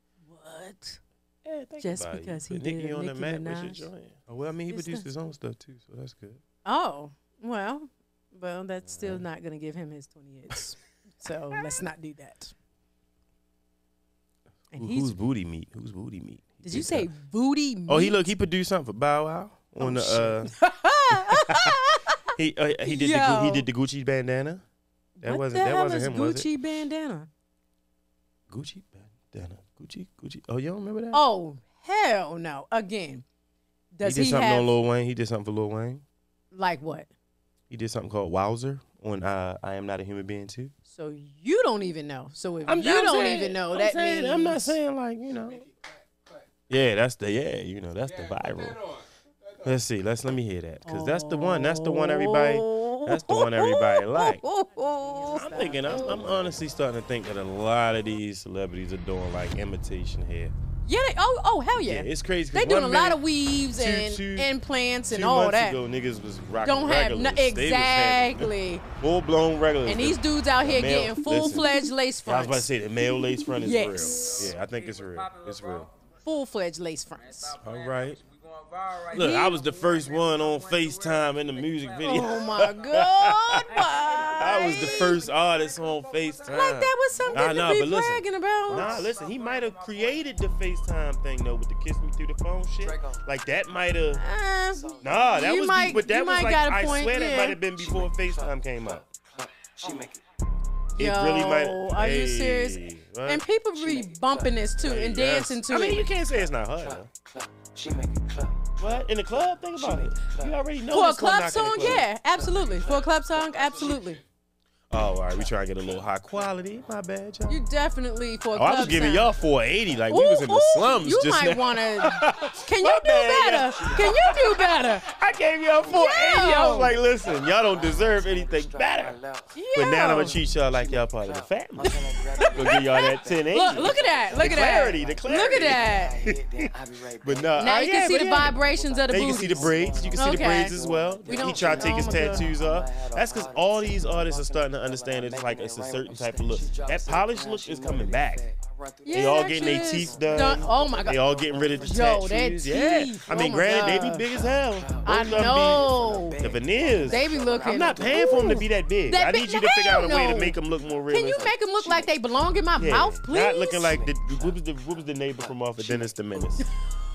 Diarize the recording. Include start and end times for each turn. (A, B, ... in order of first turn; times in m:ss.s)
0:00.2-0:01.0 A
0:01.4-0:06.4 B
0:01.8-0:03.9 A
0:04.7-0:05.0 A
0:06.6-0:12.5 A
0:08.8-0:09.2 B
0:14.7-0:15.1 A
0:14.7-0:17.1 B
0:16.6-0:18.2 A
0:17.9-0:20.5 B
0:19.8-0:22.3 A
0:21.1-0:21.8 B
0:22.3-0:24.6 B
0:22.8-0:23.7 A
0:25.2-0:27.3 A
0:25.2-0:26.5 B
0:28.5-0:31.2 B
0:31.1-0:33.2 A
0:33.9-0:34.7 A
0:34.0-0:36.0 B
0:36.5-0:37.1 A
0:37.7-0:40.7 B
0:40.9-0:44.8 A
0:42.6-0:45.7 B
0:46.7-0:48.9 B
0:49.6-0:54.4 B
0:50.8-0:56.4 A
0:55.3-1:00.5 B
1:00.8-1:05.8 A
1:01.8-1:04.5 B
1:05.1-1:15.9 B
1:06.6-1:08.8 A
1:09.8-1:12.7 A
1:13.4-1:14.5 A
1:16.2-1:17.6 A
1:17.6-1:18.2 B
1:19.0-1:34.2 B
1:19.1-1:19.6 A
1:22.0-1:25.2 A
1:26.5-1:29.1 A
1:32.8-1:33.2 C
1:34.2-1:37.6 A
1:34.7-1:35.9 C
1:35.0-1:39.0 B
1:37.7-1:40.2 C
1:41.0-1:46.1 A
1:41.0-1:43.4 B
1:43.8-1:44.6 C
1:44.8-1:47.1 B
1:46.2-1:50.6 C
1:48.8-1:52.1 B
1:50.9-1:54.2 A
1:52.3-1:53.5 C
1:54.9-1:57.6 B
1:57.5-1:59.3 A
1:58.5-2:09.2 B
2:00.1-2:05.0 A
2:03.7-2:04.3 C
2:05.7-2:32.2 C
2:05.9-2:06.9 A
2:09.5-2:10.4 A
2:09.7-2:16.6 B
2:12.4-2:16.2 A
2:17.2-2:18.6 B
2:17.6-2:22.5 A
2:19.1-2:28.4 B
2:29.0-2:31.2 A
2:29.1-2:41.6 B
2:31.8-2:34.2 A
2:33.8-2:38.6 C
2:35.0-2:36.4 A
2:37.0-2:40.6 A
2:41.1-2:44.0 A
2:41.7-2:42.4 C
2:42.8-2:46.6 B
2:43.8-2:44.6 C
2:45.3-2:46.6 C